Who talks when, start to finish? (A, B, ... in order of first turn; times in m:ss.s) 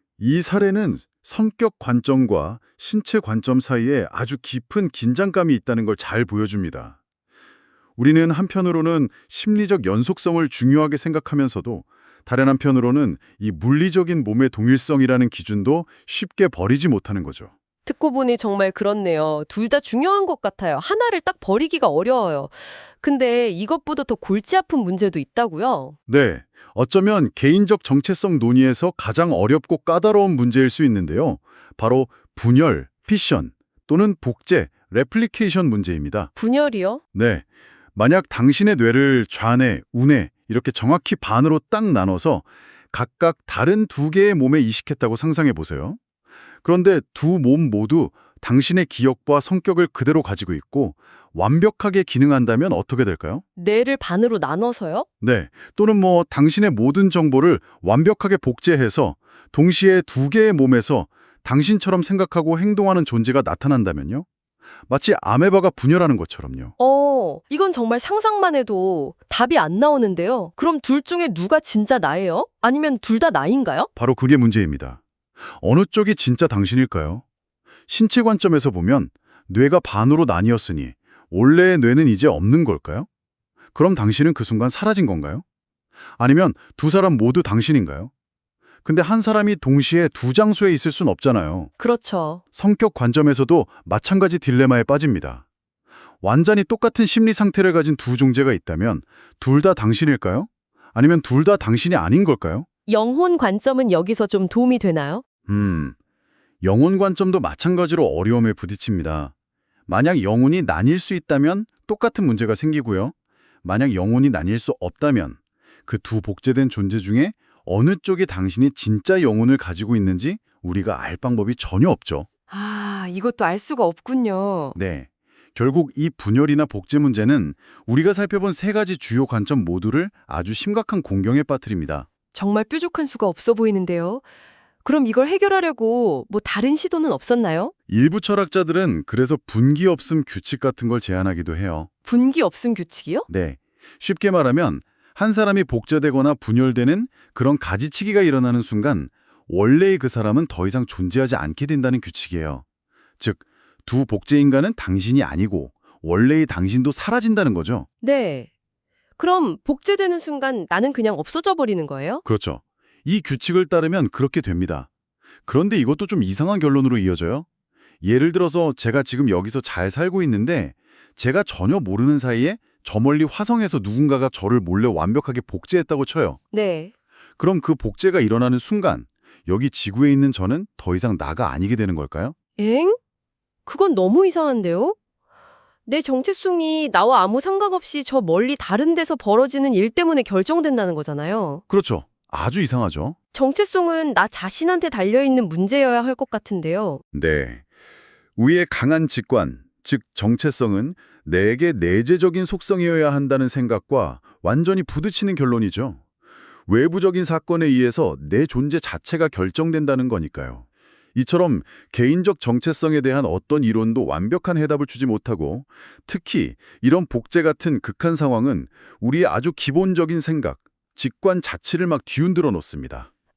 0:00.2-0:07.0 A
0:08.0-0:17.5 A
0:17.8-0:26.0 B
0:26.1-0:36.3 A
0:36.4-0:37.0 B
0:37.1-0:46.0 A
0:46.6-0:53.4 A
0:53.6-0:55.0 B
0:55.2-1:04.2 A
1:04.9-1:06.7 A
1:06.8-1:13.9 B
1:14.0-1:15.0 A
1:15.6-1:17.2 A
1:17.9-1:23.1 A
1:23.7-1:25.4 A
1:26.2-1:28.1 A
1:28.8-1:31.7 A
1:31.8-1:32.4 B
1:32.5-1:35.4 A
1:36.2-1:42.7 A
1:42.9-1:45.2 B
1:45.5-1:46.0 A
1:46.6-1:49.3 A
1:49.9-2:02.3 A
2:02.5-2:04.8 B
2:04.7-2:12.1 A
2:12.3-2:14.2 B
2:14.8-2:17.7 B
2:17.9-2:21.9 A
2:22.0-2:23.3 B
2:23.3-2:32.6 A
2:33.2-2:37.9 A
2:38.0-2:38.5 B
2:39.2-2:42.2 B
2:42.2-2:44.9 A
2:45.5-2:47.4 A
2:48.0-2:56.4 A
2:56.5-2:56.9 B
2:57.4-3:02.3 A
3:02.6-3:03.0 B
3:03.6-3:05.0 B
3:05.8-3:11.6 B
3:11.7-3:13.2 A
3:13.3-3:17.0 B
3:17.1-3:17.6 A
3:18.4-3:26.0 A
3:26.7-3:43.1 A